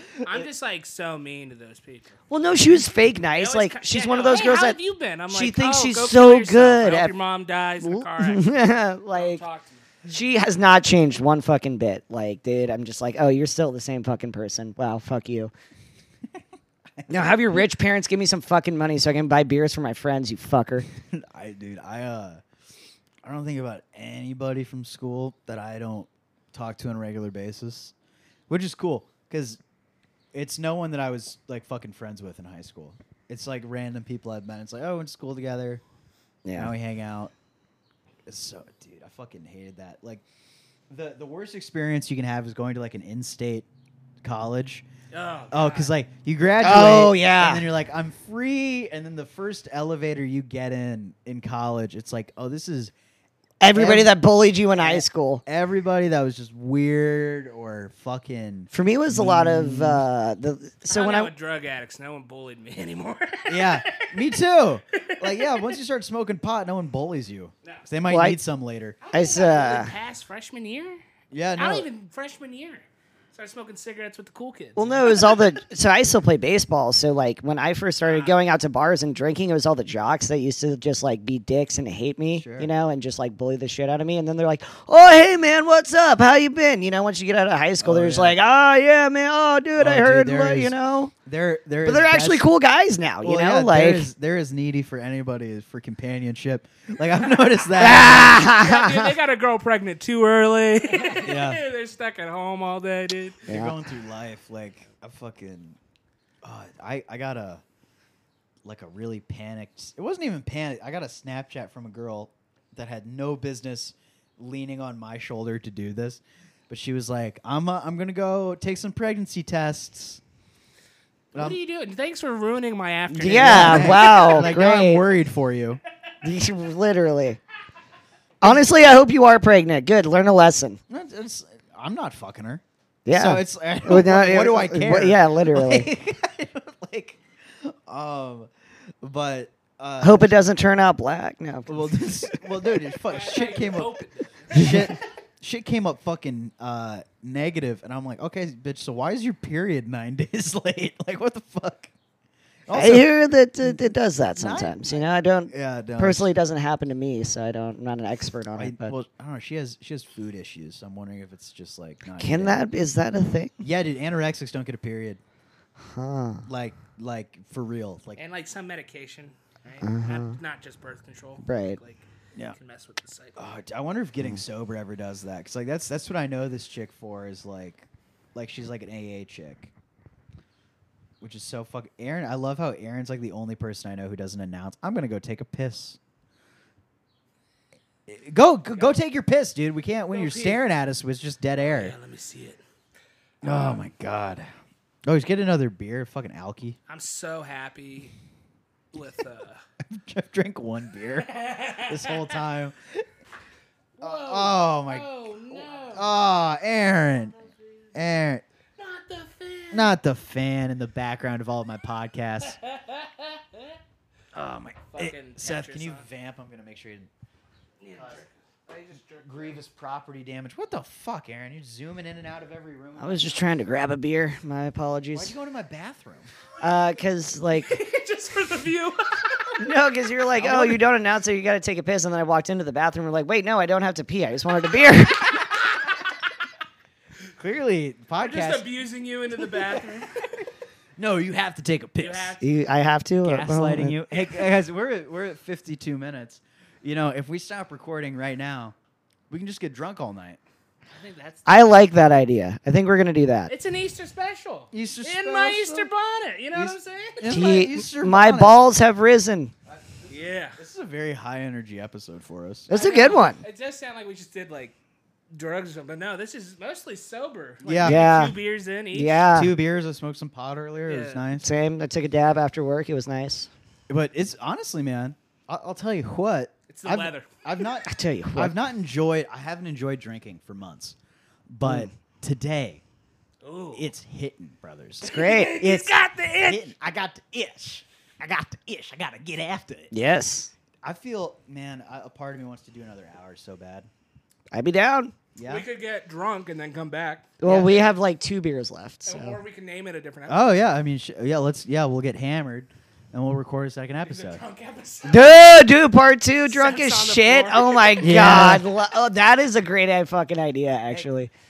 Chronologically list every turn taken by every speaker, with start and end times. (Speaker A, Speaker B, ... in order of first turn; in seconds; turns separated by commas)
Speaker A: 0.2-2.2, Speaker B: 2.3-4.8, Speaker A: 3.4-9.9, Speaker B: 5.3-7.1, Speaker B: 7.8-9.4, Speaker B: 10.1-15.5, Speaker C: 17.0-17.6, Speaker B: 17.1-20.9, Speaker C: 21.1-22.4, Speaker C: 23.2-27.9, Speaker C: 28.5-29.6, Speaker C: 30.3-35.8, Speaker B: 36.4-36.7, Speaker C: 36.5-37.3, Speaker C: 38.3-40.2, Speaker C: 40.9-43.6, Speaker C: 44.2-44.8, Speaker A: 45.1-45.9, Speaker C: 45.5-52.9, Speaker B: 46.6-47.6, Speaker B: 53.6-55.4, Speaker C: 53.7-54.1, Speaker C: 54.7-60.0, Speaker B: 58.7-61.3, Speaker A: 60.9-64.1, Speaker C: 63.5-69.0, Speaker A: 64.9-65.7, Speaker B: 68.1-68.4, Speaker A: 69.0-71.0, Speaker B: 69.1-69.9, Speaker C: 71.3-71.9, Speaker A: 71.5-75.5, Speaker B: 74.8-91.1, Speaker A: 78.0-78.3, Speaker C: 82.4-82.7, Speaker C: 87.8-88.4, Speaker C: 89.7-92.5, Speaker B: 91.8-94.1, Speaker C: 93.2-98.4, Speaker A: 97.4-103.4, Speaker B: 97.8-99.1, Speaker C: 101.1-101.6, Speaker C: 103.5-105.8, Speaker B: 103.5-103.7, Speaker C: 106.4-107.6, Speaker C: 108.6-120.2, Speaker A: 121.3-124.5, Speaker C: 123.1-125.8, Speaker B: 123.2-125.0, Speaker B: 126.2-127.4, Speaker B: 128.4-130.8, Speaker C: 130.9-138.5, Speaker B: 133.1-135.9, Speaker C: 139.0-140.4, Speaker B: 140.0-142.8, Speaker C: 141.7-144.0, Speaker A: 143.1-145.0, Speaker C: 144.5-151.9, Speaker B: 144.5-144.9, Speaker C: 152.7-153.8, Speaker B: 152.7-158.9, Speaker C: 154.4-156.3, Speaker C: 158.6-162.6, Speaker B: 162.2-163.6, Speaker C: 163.6-165.2, Speaker B: 165.8-166.5, Speaker C: 166.4-168.2, Speaker A: 168.2-173.4, Speaker B: 169.8-170.4, Speaker B: 171.4-171.8, Speaker C: 173.4-179.7, Speaker C: 181.2-186.0, Speaker C: 188.1-191.9, Speaker A: 190.1-190.6, Speaker A: 191.6-192.6, Speaker C: 193.4-194.5, Speaker A: 193.4-193.8, Speaker C: 195.1-196.8, Speaker A: 196.9-198.1, Speaker A: 198.9-199.6, Speaker C: 199.9-203.1, Speaker A: 201.2-202.4, Speaker A: 204.0-206.1, Speaker C: 204.0-207.4, Speaker A: 207.3-207.9, Speaker C: 207.9-208.4, Speaker A: 208.8-209.9, Speaker C: 209.7-212.6, Speaker A: 212.6-213.8, Speaker C: 214.3-217.1, Speaker A: 214.9-216.1, Speaker A: 217.8-219.6, Speaker C: 218.0-218.2, Speaker C: 219.2-223.4, Speaker B: 223.0-225.3, Speaker C: 225.1-226.3, Speaker B: 226.6-227.8, Speaker A: 227.6-229.6, Speaker B: 229.6-235.4, Speaker C: 230.4-230.8, Speaker C: 237.4-238.7, Speaker A: 238.2-240.3, Speaker C: 239.4-240.3, Speaker C: 241.0-242.4, Speaker A: 242.0-242.4, Speaker B: 242.4-244.0, Speaker C: 243.2-248.7, Speaker A: 244.1-244.4, Speaker C: 249.3-250.4, Speaker A: 250.9-251.6, Speaker B: 251.5-253.5, Speaker A: 253.5-257.6, Speaker C: 254.7-255.9, Speaker C: 256.5-258.6, Speaker B: 257.3-259.5, Speaker C: 259.7-262.7, Speaker A: 260.1-260.6, Speaker B: 262.7-263.4, Speaker A: 262.7-264.8, Speaker A: 265.3-269.4, Speaker C: 267.6-268.0, Speaker B: 267.8-268.4, Speaker B: 268.9-269.6, Speaker C: 269.3-271.5, Speaker A: 270.9-271.2, Speaker B: 271.4-273.5, Speaker C: 273.9-280.9, Speaker A: 276.7-277.3, Speaker B: 277.8-278.5, Speaker C: 281.5-282.8, Speaker B: 281.6-281.9, Speaker A: 283.4-283.9, Speaker C: 283.7-285.1, Speaker B: 285.0-285.6, Speaker A: 285.0-286.7, Speaker C: 285.6-289.9, Speaker B: 289.9-290.5, Speaker C: 290.8-293.9, Speaker B: 294.5-295.1, Speaker C: 295.4-295.6, Speaker A: 295.4-297.8, Speaker B: 297.4-299.4, Speaker C: 297.4-297.8, Speaker A: 299.1-300.5, Speaker C: 300.3-304.4, Speaker A: 304.0-305.3, Speaker B: 305.1-311.3, Speaker A: 306.4-308.4, Speaker C: 308.0-308.6